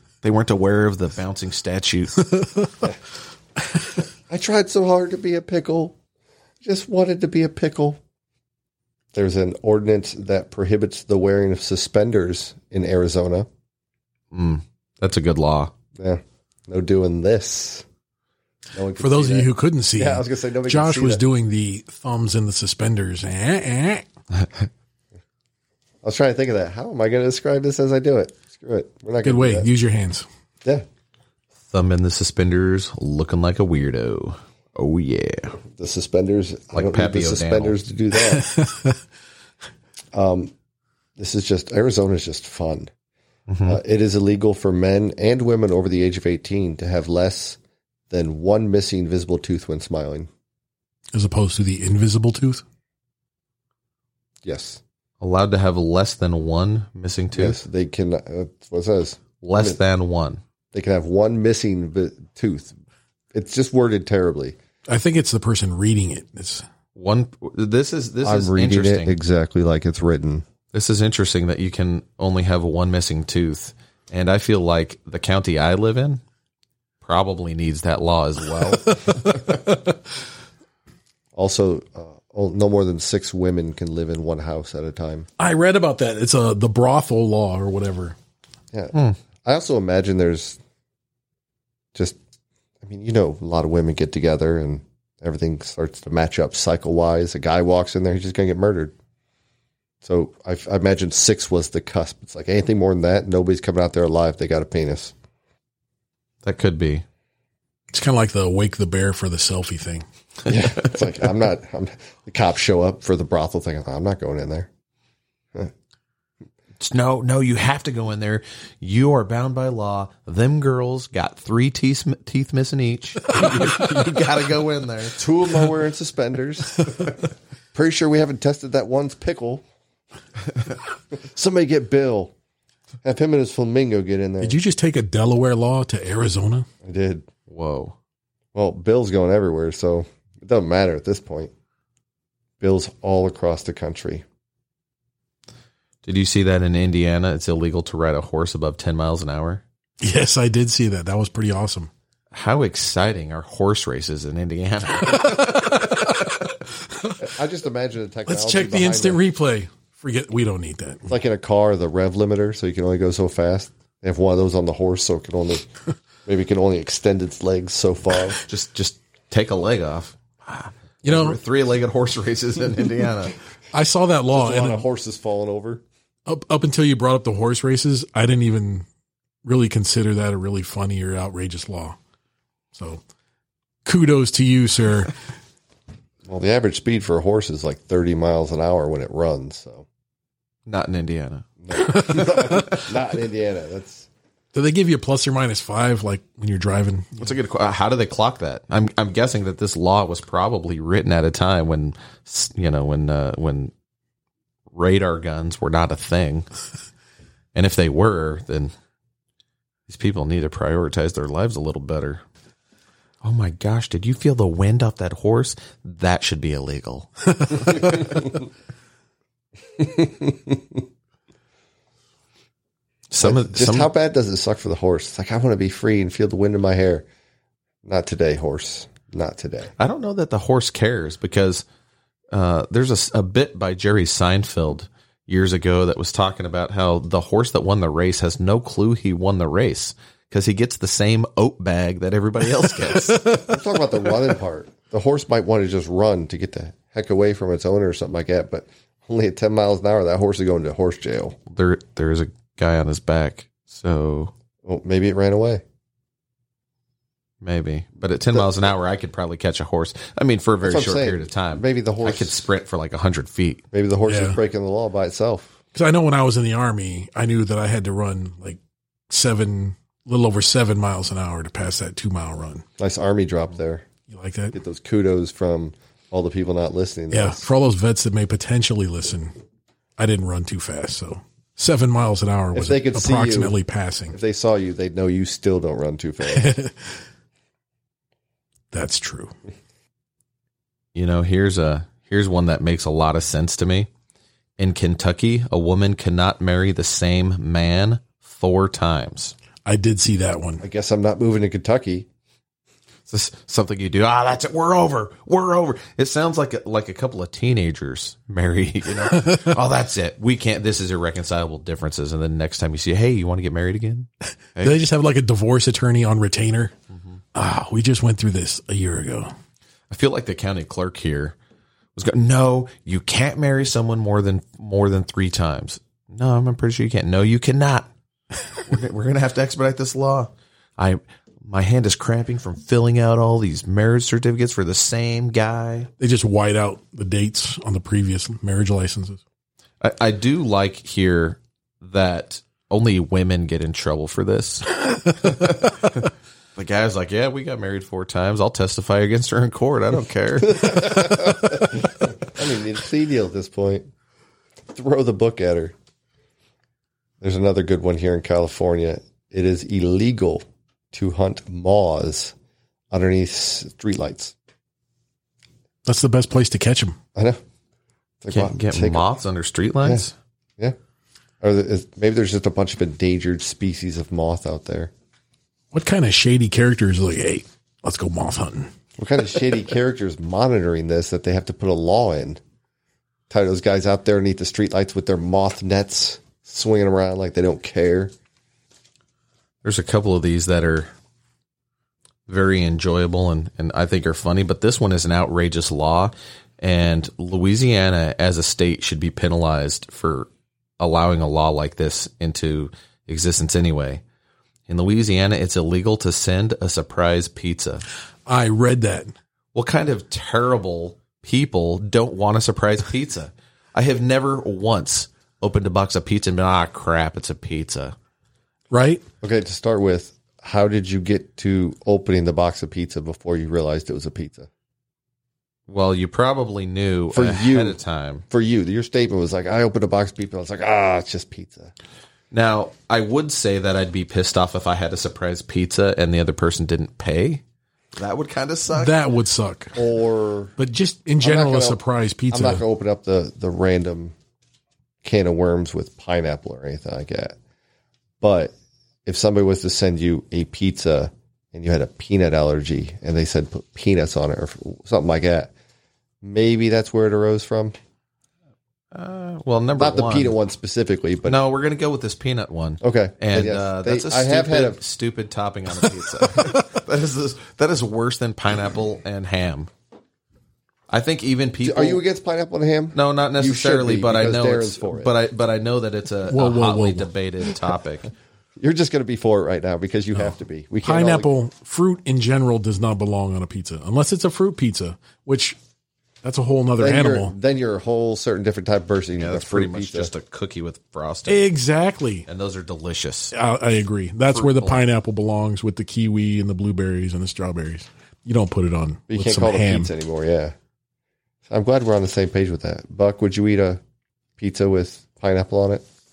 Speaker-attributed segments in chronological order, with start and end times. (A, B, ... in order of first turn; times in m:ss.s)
0:00.2-0:02.3 A
0:04.3-0:06.0 B
0:06.6-0:08.0 B
0:09.1-0:13.5 B
0:14.3-0:15.7 A
0:16.0-0:17.8 B
0:18.7-0:21.2 B
0:19.0-0:24.1 C
0:24.4-0:24.7 A
0:26.0-0:29.7 B
0:29.2-0:30.3 C
0:31.7-0:35.6 A
0:35.7-0:38.5 B
0:36.7-0:37.8 A
0:38.3-0:39.0 C
0:40.1-0:40.5 B
0:41.2-0:42.9 B
0:43.5-0:43.8 A
0:43.7-0:47.6 B
0:48.1-0:50.3 B
0:51.1-0:52.6 C
0:54.4-0:54.8 B
0:55.2-0:57.6 A
0:57.3-0:59.8 B
0:59.4-1:00.4 A
1:00.7-1:02.7 B
1:03.3-1:04.6 B
1:04.9-1:06.6 C
1:07.0-1:09.1 A
1:08.2-1:10.4 B
1:10.7-1:16.2 A
1:17.0-1:19.4 A
1:19.0-1:19.6 C
1:21.3-1:25.3 B
1:25.4-1:28.2 C
1:28.7-1:30.6 B
1:32.8-1:38.9 B
1:40.0-1:45.1 B
1:46.4-1:47.0 A
1:47.9-1:50.0 C
1:50.5-1:54.7 B
1:56.8-2:05.2 A
2:05.2-2:07.2 B
2:07.7-2:09.6 B
2:11.1-2:12.3 B
2:13.0-2:14.6 B
2:14.4-2:16.7 C
2:16.8-2:17.3 B
2:17.5-2:18.0 A
2:18.6-2:21.5 B
2:22.6-2:24.2 B
2:26.0-2:29.6 A
2:30.0-2:31.9 C
2:32.3-2:36.2 A
2:35.1-2:36.1 C
2:37.2-2:39.2 B
2:38.3-2:41.1 C
2:41.1-2:45.7 B
2:46.3-2:48.4 B
2:48.4-2:53.4 A
2:51.0-2:51.4 C
2:53.7-2:54.8 C
2:54.3-2:55.8 B
2:56.3-2:58.9 C
2:59.4-3:02.0 C
3:02.7-3:03.0 C
3:03.8-3:05.1 C
3:06.3-3:09.9 B
3:10.7-3:12.6 A
3:11.6-3:14.1 B
3:14.5-3:17.3 C
3:17.2-3:23.7 A
3:24.7-3:26.5 A
3:27.6-3:28.7 A
3:29.9-3:32.2 A
3:33.2-3:38.3 A
3:39.8-3:40.8 B
3:43.1-3:43.9 A
3:43.2-3:47.1 B
3:47.8-3:49.7 B
3:49.8-3:51.6 A
3:52.3-4:03.4 A
4:03.2-4:03.5 C
4:03.4-4:11.4 B
4:11.5-4:14.3 A
4:14.6-4:15.6 B
4:17.4-4:23.6 A
4:20.6-4:22.3 B
4:23.7-4:25.6 B
4:24.1-4:24.4 C
4:25.7-4:32.6 C
4:32.8-4:33.8 B
4:34.1-4:34.6 C
4:34.5-4:37.5 B
4:37.1-4:39.3 C
4:40.0-4:44.2 C
4:42.5-4:43.6 B
4:44.1-4:46.5 B
4:46.3-4:46.9 C
4:48.7-4:49.3 C
4:51.0-4:53.9 A
4:54.6-4:59.4 A
4:59.6-5:00.6 C
5:00.6-5:02.1 B
5:03.1-5:14.8 A
5:09.1-5:09.5 C
5:14.6-5:16.7 C
5:16.9-5:17.2 A
5:17.4-5:19.3 C
5:19.9-5:21.4 A
5:22.0-5:27.9 A
5:28.6-5:35.9 A
5:36.0-5:39.2 C
5:39.8-5:51.5 A
5:50.4-5:53.9 B
5:54.7-5:55.7 B
5:57.2-6:02.3 B
6:02.9-6:04.4 B
6:05.9-6:07.0 C
6:07.2-6:07.4 B
6:08.2-6:09.0 B
6:08.3-6:10.1 A
6:11.4-6:14.9 B
6:15.7-6:18.7 C
6:19.0-6:22.4 B
6:23.3-6:28.1 B
6:29.6-6:30.9 A
6:32.3-6:40.3 A
6:40.8-6:44.0 A
6:44.7-6:47.8 A
6:48.3-6:49.1 C
6:49.6-6:58.0 A
6:58.7-6:59.0 C
6:59.2-7:04.5 B
7:05.7-7:08.2 A
7:07.1-7:07.8 B
7:08.3-7:11.7 B
7:12.3-7:17.4 A
7:18.0-7:19.0 A
7:18.7-7:19.8 C
7:19.8-7:20.6 B
7:20.6-7:22.6 C
7:21.2-7:24.1 B
7:25.0-7:27.4 B
7:28.2-7:28.5 B
7:29.1-7:35.5 B
7:36.2-7:37.8 B
7:38.9-7:40.4 A
7:39.8-7:41.4 B
7:41.2-7:49.7 A
7:42.8-7:44.8 B
7:50.9-7:52.0 A
7:51.6-7:55.1 B
7:52.9-7:58.1 A
7:56.3-7:57.1 C
7:58.6-8:01.3 B
8:00.8-8:05.6 C
8:06.2-8:07.3 C
8:06.8-8:10.1 B
8:09.2-8:11.4 A
8:11.3-8:12.3 C
8:12.3-8:13.3 A
8:13.3-8:19.9 C
8:14.3-8:14.8 A
8:19.1-8:20.6 B
8:21.5-8:23.8 B
8:24.4-8:25.8 B